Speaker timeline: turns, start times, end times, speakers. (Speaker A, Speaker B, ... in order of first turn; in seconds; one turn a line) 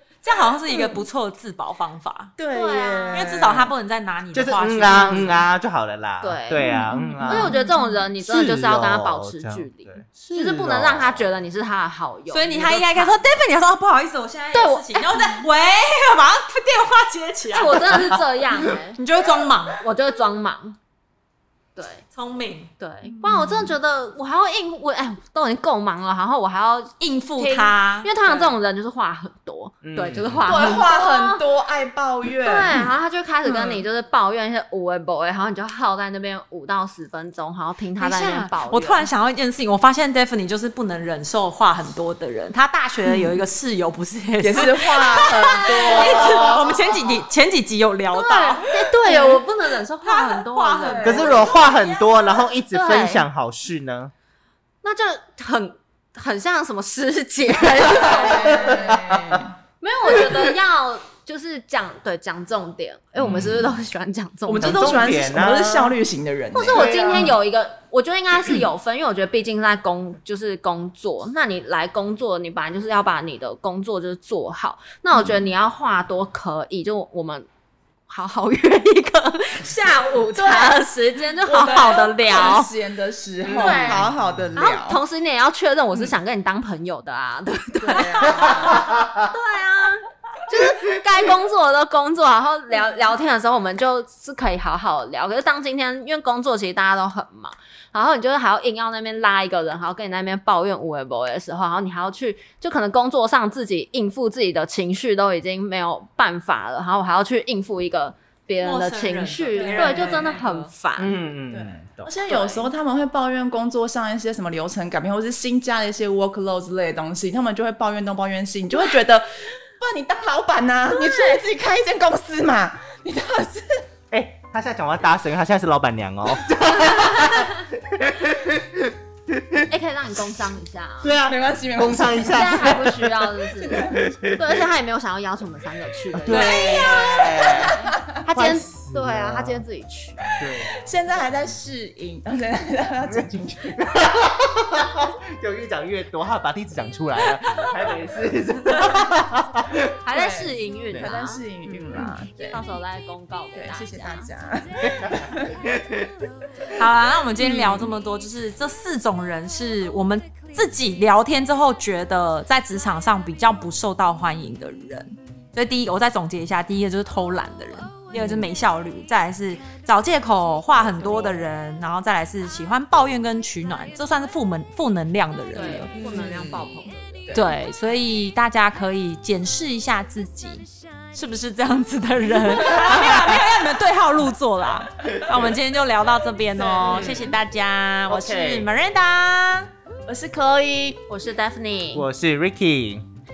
Speaker A: 0.2-2.4
Speaker B: 0.7-1.0
Speaker B: 2.4-3.7
Speaker C: 2.5-3.4
Speaker A: 3.1-5.5
Speaker D: 4.3-7.6
Speaker C: 6.2-6.7
Speaker B: 6.6-8.0
Speaker C: 7.3-13.2
Speaker D: 8.2-11.2
Speaker A: 12.3-18.1
Speaker C: 14.5-15.2
Speaker C: 17.5-19.0
Speaker A: 18.9-19.8
Speaker C: 19.8-20.8
Speaker C: 21.8-22.0
Speaker A: 22.1-22.7
Speaker C: 22.8-31.4
Speaker B: 23.1-23.8
Speaker A: 27.0-28.1
Speaker D: 29.8-30.5
Speaker B: 30.4-32.9
Speaker C: 32.4-39.1
Speaker B: 33.5-33.8
Speaker A: 38.0-49.4
Speaker B: 43.0-43.4
Speaker B: 44.4-46.8
Speaker C: 45.6-46.6
Speaker C: 48.1-51.5
Speaker B: 49.1-49.4
Speaker A: 50.0-52.5
Speaker B: 50.8-51.5
Speaker D: 51.0-54.1
Speaker C: 52.7-53.2
Speaker C: 54.8-58.8
Speaker B: 57.8-59.5
Speaker D: 58.3-59.5
Speaker C: 59.8-65.1
Speaker D: 63.2-63.7
Speaker B: 64.5-67.3
Speaker D: 64.6-65.9
Speaker C: 66.5-77.5
Speaker D: 66.7-67.3
Speaker C: 78.1-82.7
Speaker B: 80.3-80.8
Speaker B: 81.4-85.0
Speaker D: 83.5-84.5
Speaker C: 83.6-84.0
Speaker C: 84.6-111.1
Speaker B: 87.8-88.9
Speaker D: 88.3-89.2
Speaker A: 108.6-110.7
Speaker B: 109.5-110.3
Speaker D: 111.0-112.1
Speaker B: 111.5-123.8
Speaker C: 112.3-112.7
Speaker C: 120.9-121.4
Speaker D: 124.1-129.6
Speaker C: 129.7-131.1
Speaker D: 131.0-134.4
Speaker B: 131.2-132.7
Speaker C: 132.3-140.3
Speaker D: 136.1-139.6
Speaker A: 136.3-137.7
Speaker B: 137.4-138.0
Speaker D: 140.4-140.8
Speaker B: 140.7-143.8
Speaker D: 143.2-149.9
Speaker C: 150.0-154.3
Speaker B: 150.1-152.6
Speaker B: 153.5-155.6
Speaker D: 154.9-156.1
Speaker A: 156.7-176.6
Speaker B: 157.4-157.9
Speaker B: 168.1-168.5
Speaker C: 175.6-177.3
Speaker B: 176.0-176.4
Speaker B: 177.3-177.6
Speaker A: 177.3-189.7
Speaker D: 182.8-183.3
Speaker B: 186.6-187.4
Speaker D: 188.1-188.7
Speaker B: 190.1-191.0
Speaker C: 191.1-192.1
Speaker D: 191.9-193.1